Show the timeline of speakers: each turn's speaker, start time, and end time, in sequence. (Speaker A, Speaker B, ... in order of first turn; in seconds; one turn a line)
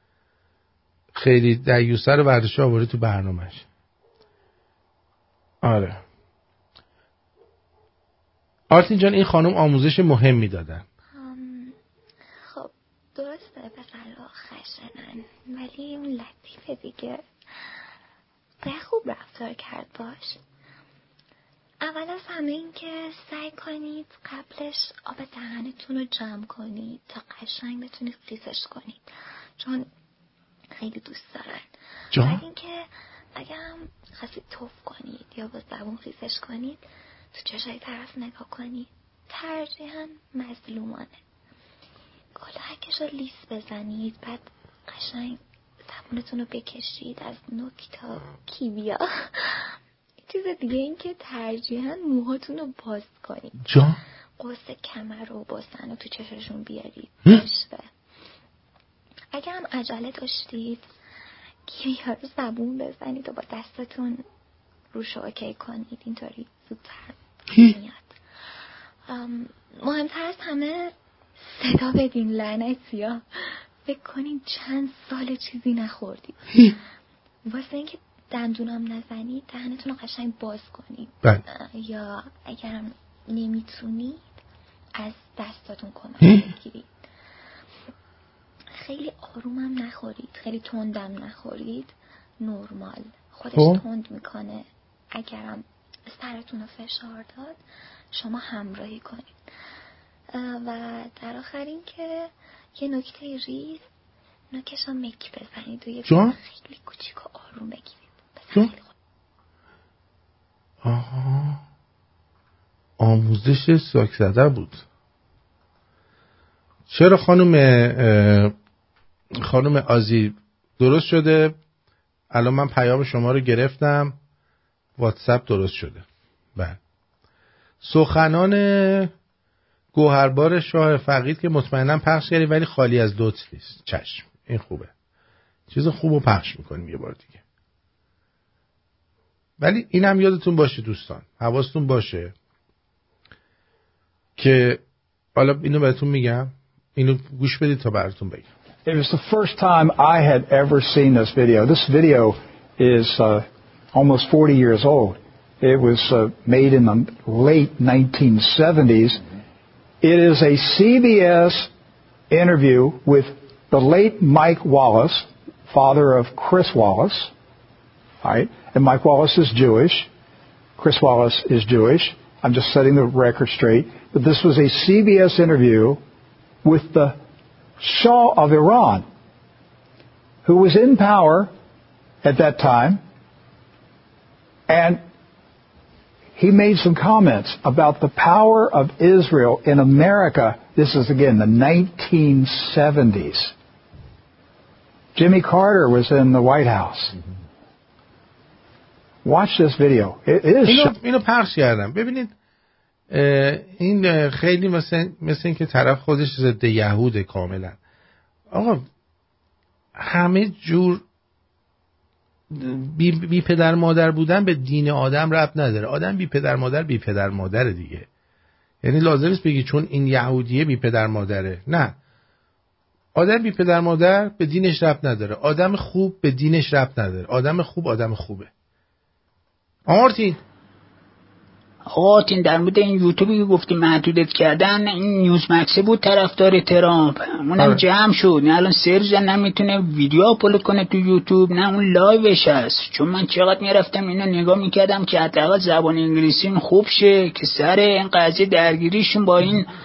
Speaker A: 1.1-3.6
Speaker A: 5.6-6.0
Speaker A: 8.7-10.8
Speaker B: 11.1-11.8
Speaker B: 12.5-17.8
Speaker B: 18.6-20.4
Speaker B: 21.8-29.1
Speaker B: 29.6-29.9
Speaker B: 30.8-41.2
Speaker A: 32.1-32.4
Speaker B: 42.4-53.9
Speaker A: 53.6-54.0
Speaker B: 54.4-57.9
Speaker B: 59.3-60.9
Speaker B: 61.6-64.2
Speaker B: 64.9-76.8
Speaker B: 77.5-84.3
Speaker B: 85.0-87.0
Speaker A: 86.2-86.5
Speaker B: 88.8-97.6
Speaker A: 93.5-93.8
Speaker B: 98.1-99.4
Speaker B: 100.3-103.9
Speaker B: 104.5-108.9
Speaker A: 106.1-106.4
Speaker A: 110.8-111.6
Speaker A: 113.0-114.8
Speaker A: 116.9-118.5
Speaker A: 119.5-121.5
Speaker A: 122.3-124.2
Speaker A: 125.0-126.1
Speaker A: 127.8-129.1
Speaker A: 129.9-134.9
Speaker A: 135.7-137.4
Speaker A: 139.6-142.3
Speaker A: 144.4-144.8
Speaker A: 145.4-148.5
Speaker C: 148.9-159.2
Speaker C: 160.0-161.7
Speaker C: 162.3-167.3
Speaker C: 168.2-170.1
Speaker C: 170.8-176.0
Speaker C: 176.6-177.2
Speaker C: 177.8-179.1
Speaker C: 180.4-181.5
Speaker C: 182.2-183.0
Speaker C: 184.7-185.0
Speaker C: 186.4-193.5
Speaker C: 195.2-197.2
Speaker C: 199.2-200.9
Speaker A: 200.7-202.3
Speaker A: 203.1-207.8
Speaker A: 208.5-208.8
Speaker A: 210.0-211.0
Speaker A: 212.5-218.1
Speaker A: 218.8-222.0
Speaker A: 223.2-228.5
Speaker A: 229.9-230.4
Speaker D: 232.0-249.6
Speaker C: 232.0-234.0
Speaker C: 237.3-237.9